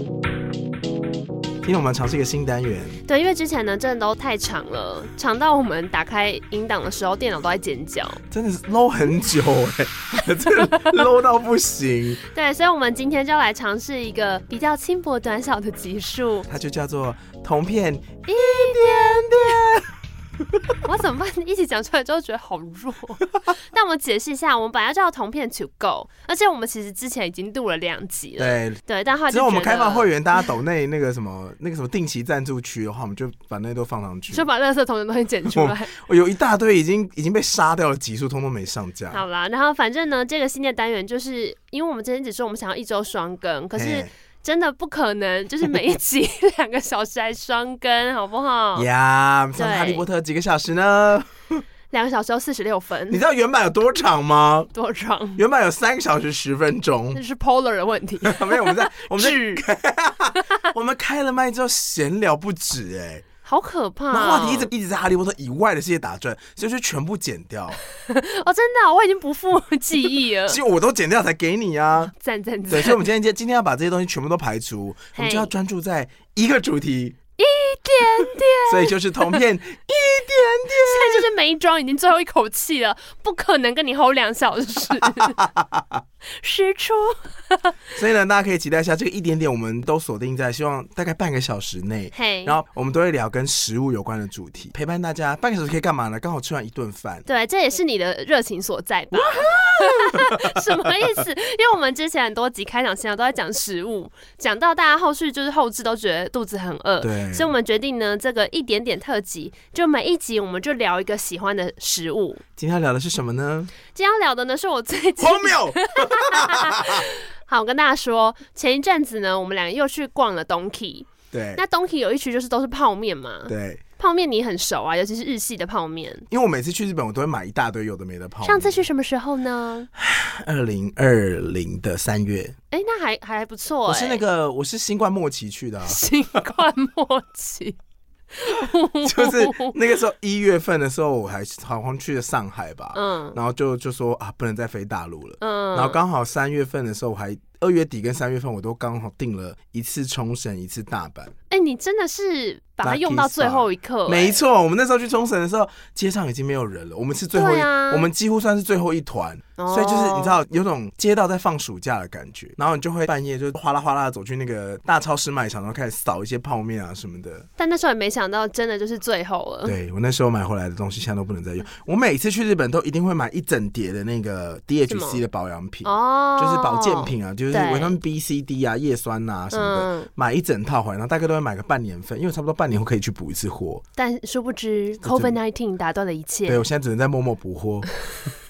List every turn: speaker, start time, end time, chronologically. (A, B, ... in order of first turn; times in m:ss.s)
0:01.6-0:03.0 A
0:03.0-0:08.2 B
0:08.3-0:12.2 A
0:10.5-0:11.0 B
0:12.3-0:16.5 B
0:16.5-0:19.9 A
0:18.3-0:19.6 B
0:20.8-0:30.1 B
0:28.4-0:34.5 A
0:34.3-0:36.0 B
0:35.5-0:39.2 A
0:39.1-0:48.9 B
0:43.8-0:44.1 A
0:48.8-0:51.6 A
0:49.6-0:50.0 B
0:51.9-0:53.2 B
0:53.1-0:54.7 A
0:54.7-0:55.4 B
0:55.4-0:57.2 A
0:57.1-0:59.6 B
0:58.2-1:03.2 A
1:03.4-1:04.7 B
1:04.1-1:07.8 A
1:08.0-1:10.6 B
1:10.5-1:12.1 A
1:12.1-1:13.0 B
1:12.7-1:17.2 A
1:15.2-1:15.5 B
1:17.4-1:19.4 B
1:18.6-1:21.3 A
1:20.8-1:25.4 B
1:25.0-1:26.0 A
1:26.3-1:27.8 B
1:28.0-1:37.2 A
1:32.1-1:32.6 B
1:37.3-1:52.4 B
1:39.1-1:41.0 A
1:47.0-1:47.5 A
1:52.6-1:53.7 A
1:53.9-2:06.3 B
1:55.2-1:57.1 A
2:01.3-2:01.6 A
2:03.5-2:03.8 A
2:06.3-2:08.8 A
2:08.4-2:09.9 B
2:10.0-2:12.6 A
2:12.7-2:14.2 B
2:13.9-2:16.5 A
2:15.8-2:17.8 B
2:18.3-2:19.7 B
2:19.0-2:31.3 A
2:22.9-2:23.4 B
2:25.4-2:26.0 B
2:31.5-2:34.4 B
2:32.8-2:47.5 A
2:37.3-2:38.1 B
2:39.6-2:40.4 B
2:47.6-2:49.8 B
2:49.6-3:03.8 A
2:54.9-2:55.2 B
2:55.8-2:58.0 B
2:59.5-3:00.1 B
3:04.0-3:06.6 B
3:05.0-3:05.4 A
3:06.5-3:07.9 A